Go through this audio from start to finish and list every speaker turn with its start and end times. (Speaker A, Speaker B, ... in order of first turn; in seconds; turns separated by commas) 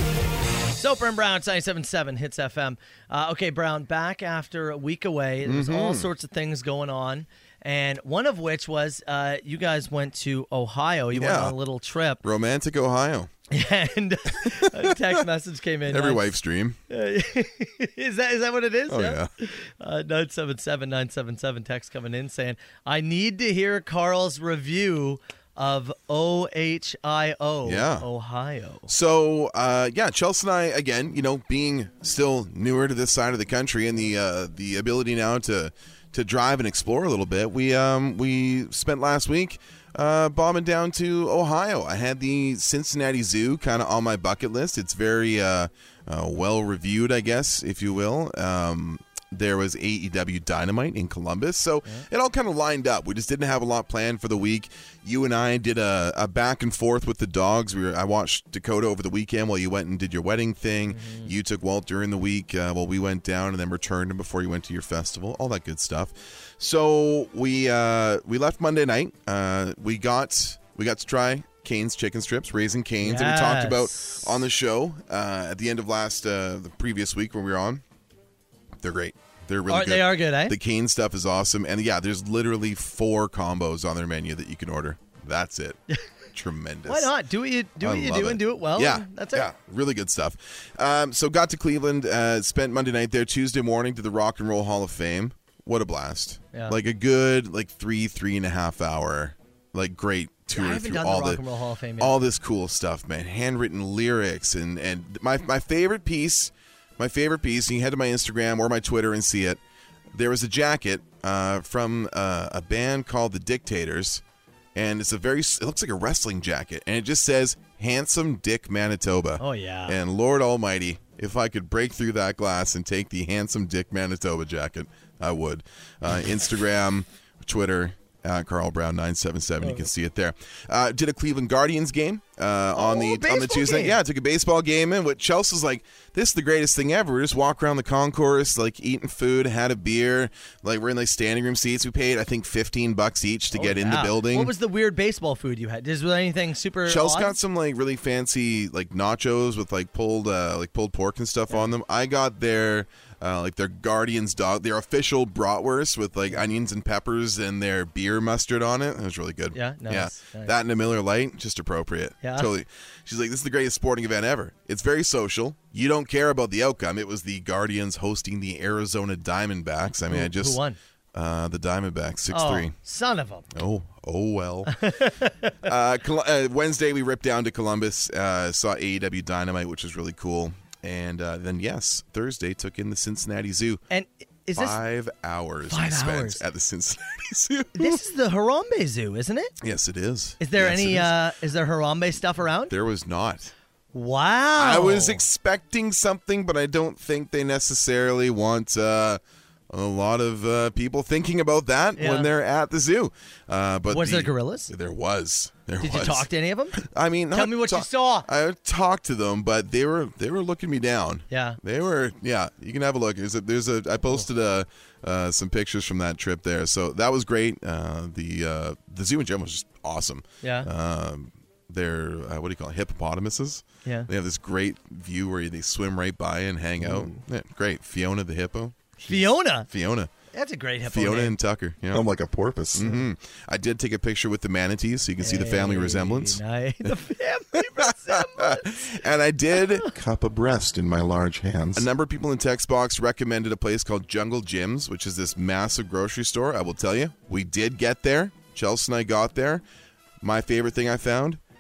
Speaker A: 0.7-12.2, Speaker B: 5.4-6.1, Speaker B: 11.1-11.6, Speaker B: 12.2-13.3, Speaker A: 13.5-16.3, Speaker B: 14.4-15.2, Speaker B: 15.9-16.8, Speaker A: 16.9-28.9, Speaker B: 18.9-19.3, Speaker B: 27.6-28.1, Speaker B: 28.9-77.8, Speaker A: 60.9-61.3, Speaker A: 73.0-74.3, Speaker B: 78.8-85.8, Speaker A: 79.7-80.6, Speaker B: 86.3-87.2, Speaker A: 86.9-89.5, Speaker B: 87.8-101.4, Speaker A: 100.5-102.2, Speaker B: 102.0-109.6, Speaker B: 110.1-114.2, Speaker B: 114.8-144.5, Speaker A: 119.4-120.0, Speaker A: 129.6-129.9, Speaker A: 132.8-134.0, Speaker A: 143.5-147.4, Speaker B: 146.8-170.6, Speaker A: 159.5-160.5, Speaker A: 162.2-162.5, Speaker A: 170.1-170.8, Speaker B: 171.1-172.8, Speaker A: 172.3-173.5, Speaker B: 173.5-174.8, Speaker A: 174.7-175.7, Speaker B: 175.6-183.8, Speaker A: 183.9-184.8, Speaker B: 184.6-188.0, Speaker A: 185.7-186.4, Speaker A: 187.8-189.5, Speaker B: 189.6-191.2, Speaker A: 190.4-192.7, Speaker B: 192.7-193.5, Speaker A: 193.9-195.2, Speaker B: 194.6-230.1, Speaker A: 202.0-202.3, Speaker A: 203.9-204.7, Speaker A: 205.8-206.8, Speaker A: 207.3-208.3, Speaker A: 211.3-211.6, Speaker A: 220.4-220.7, Speaker A: 223.8-224.1, Speaker A: 226.8-227.2, Speaker A: 229.0-229.7, Speaker A: 230.3-231.4, Speaker B: 230.8-232.1, Speaker C: 231.9-233.0, Speaker B: 232.7-236.9, Speaker A: 235.2-238.7, Speaker B: 237.5-239.9, Speaker C: 239.9-241.9, Speaker B: 241.8-249.6, Speaker B: 250.2-251.4